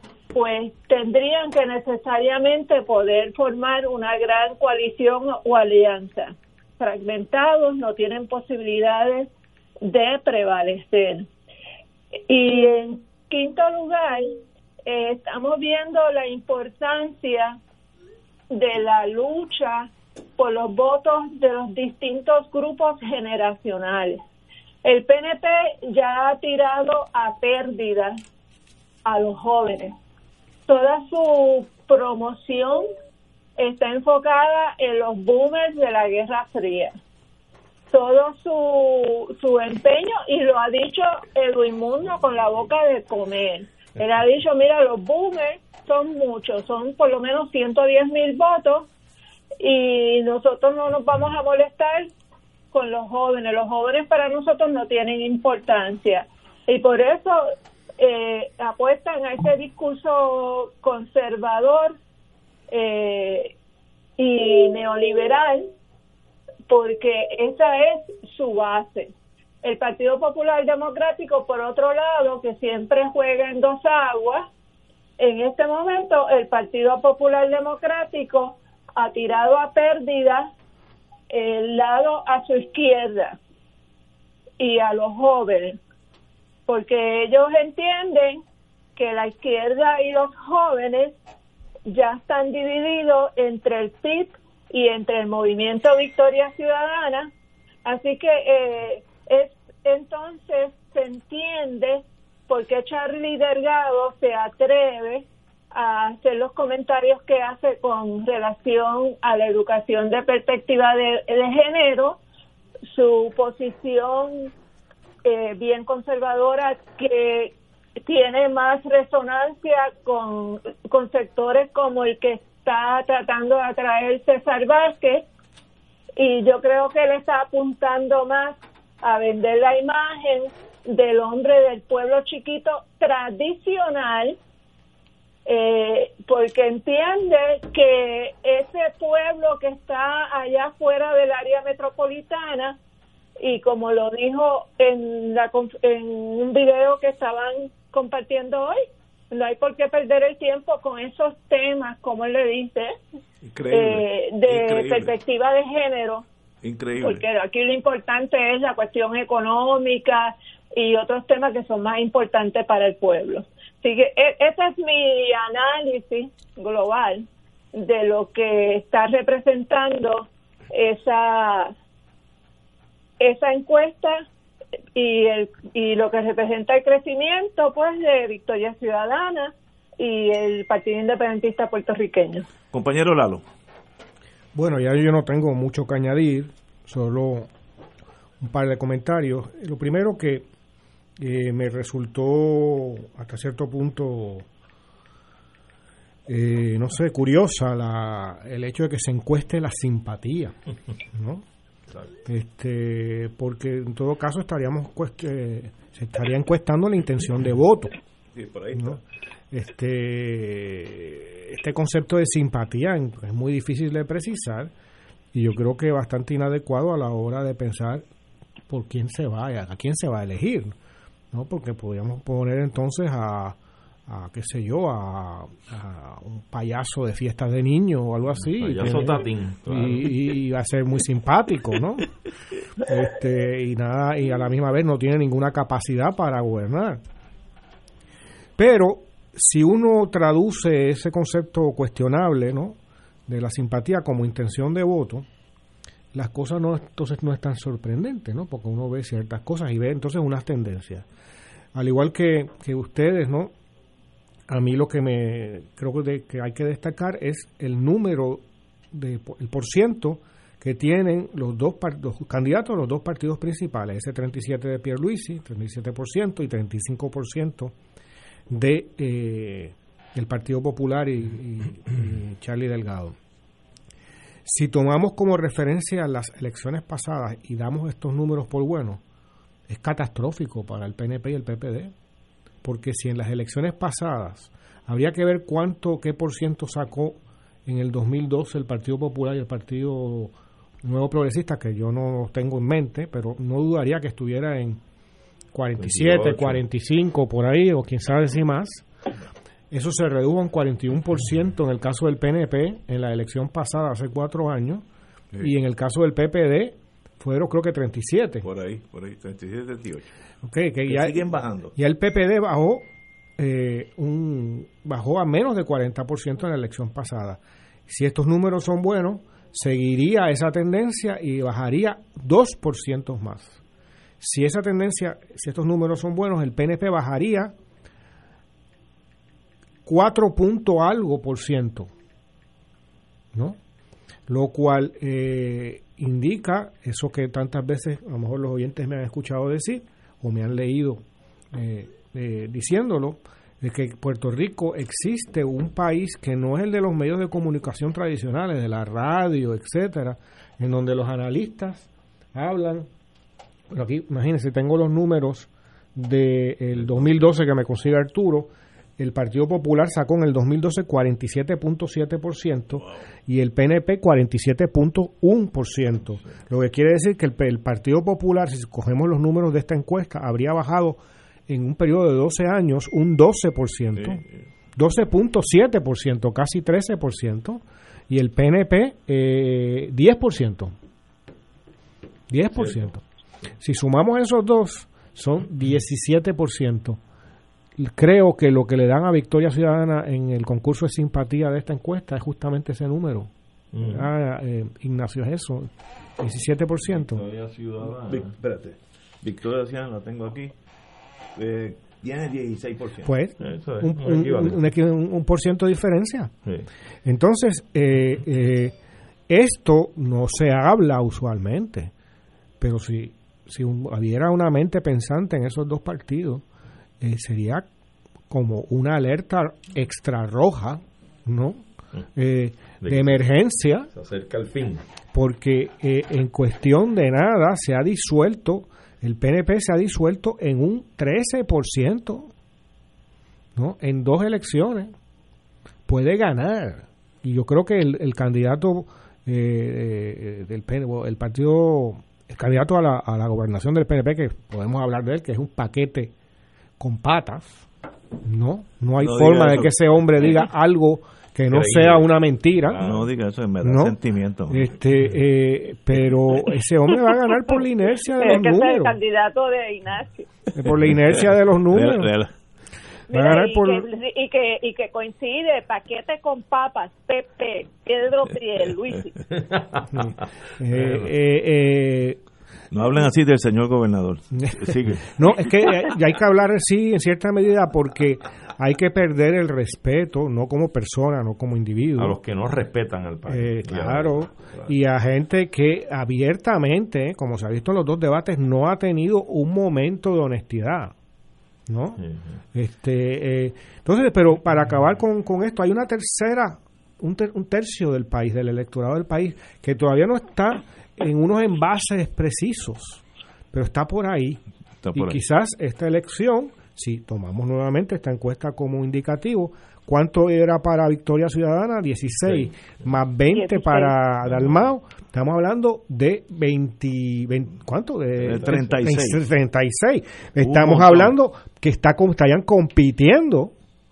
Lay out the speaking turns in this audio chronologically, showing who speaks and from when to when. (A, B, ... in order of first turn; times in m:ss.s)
0:00.3-0:09.3 A
0:09.8-0:11.3 A
0:12.3-0:17.6 A
0:18.5-0:24.2 A
0:24.8-0:28.2 A
0:29.0-0:29.9 A
0:30.7-0:32.9 A
0:33.6-0:36.9 A
0:37.9-0:48.9 A
0:49.6-0:52.1 A
0:52.7-1:02.0 A
1:02.7-1:03.5 A
1:04.2-1:05.7 A
1:06.7-1:09.1 A
1:09.6-1:14.5 A
1:15.2-1:20.5 A
1:21.3-1:23.4 A
1:24.6-1:25.8 A
1:26.7-1:28.4 A
1:29.0-1:31.2 A
1:31.9-1:37.3 A
1:37.8-1:52.2 A
1:52.9-1:54.5 A
1:55.2-2:05.2 A
2:06.2-2:14.4 A
2:15.5-2:22.8 A
2:23.4-2:28.8 A
2:29.3-2:32.9 A
2:33.4-2:35.2 B
2:33.7-2:36.2 A
2:36.6-2:37.2 B
2:37.0-2:51.7 A
2:53.2-2:54.2 A
2:55.0-3:02.5 A
3:02.7-3:03.4 B
3:04.6-3:07.5 C
3:08.4-3:10.5 C
3:11.2-3:14.4 C
3:16.3-3:20.5 C
3:21.1-3:21.4 C
3:22.3-3:27.9 C
3:28.3-3:29.0 B
3:28.8-3:29.0 C
3:29.5-3:34.7 C
3:35.3-3:38.0 C
3:38.7-3:40.7 C
3:41.3-3:43.6 C
3:44.1-3:52.1 C
3:48.6-3:50.1 D
3:52.8-3:57.0 C
3:58.6-4:05.3 C
4:06.1-4:11.1 C
4:11.8-4:13.5 C
4:14.5-4:27.7 C
4:28.5-4:33.2 C
4:34.4-4:39.0 C
4:39.7-4:41.9 C
4:42.6-4:54.8 C
4:55.5-4:58.9 C
4:55.8-4:56.6 D
4:59.7-5:04.8 C
5:05.4-5:08.4 C
5:08.4-5:10.1 B
5:10.4-5:12.8 C
5:10.9-5:11.7 B
5:13.4-5:23.6 C
5:24.2-5:27.5 C
5:29.9-5:31.9 C
5:34.3-5:52.9 C
5:53.7-6:14.2 C
6:14.8-6:20.7 C
6:22.3-6:23.0 C
6:23.6-6:27.0 C
6:27.8-6:33.3 C
6:33.7-6:34.1 D
6:33.8-6:37.2 C
6:36.9-6:38.3 D
6:38.0-6:40.5 B
6:41.4-6:43.1 B
6:43.0-6:46.3 C
6:43.4-6:44.6 D
6:47.0-6:48.7 C
6:49.3-6:51.9 C
6:52.6-6:56.4 C
6:57.0-6:57.7 C
6:58.3-7:01.6 C
7:02.2-7:03.9 C
7:02.8-7:03.2 D
7:03.9-7:04.8 D
7:05.1-7:12.3 C
7:13.6-7:14.9 C
7:15.9-7:26.1 C
7:26.8-7:27.6 C
7:28.2-7:32.8 C
7:29.0-7:29.7 B
7:31.5-7:31.9 D
7:32.8-7:34.7 B
7:33.6-7:34.0 C
7:34.5-7:39.0 C
7:38.2-7:40.3 A
7:40.5-7:42.1 C
7:41.7-7:42.3 B
7:43.1-7:49.1 A
7:43.1-7:43.8 C
7:49.9-7:52.2 C
7:52.7-7:55.0 B
7:54.4-8:02.2 C
8:02.0-8:04.7 D
8:03.3-8:10.9 C
8:11.7-8:12.0 C
8:12.5-8:24.4 C
8:24.8-8:25.2 B
8:24.9-8:43.5 C
8:33.3-8:33.9 A
8:38.2-8:39.2 B
8:40.4-8:41.1 B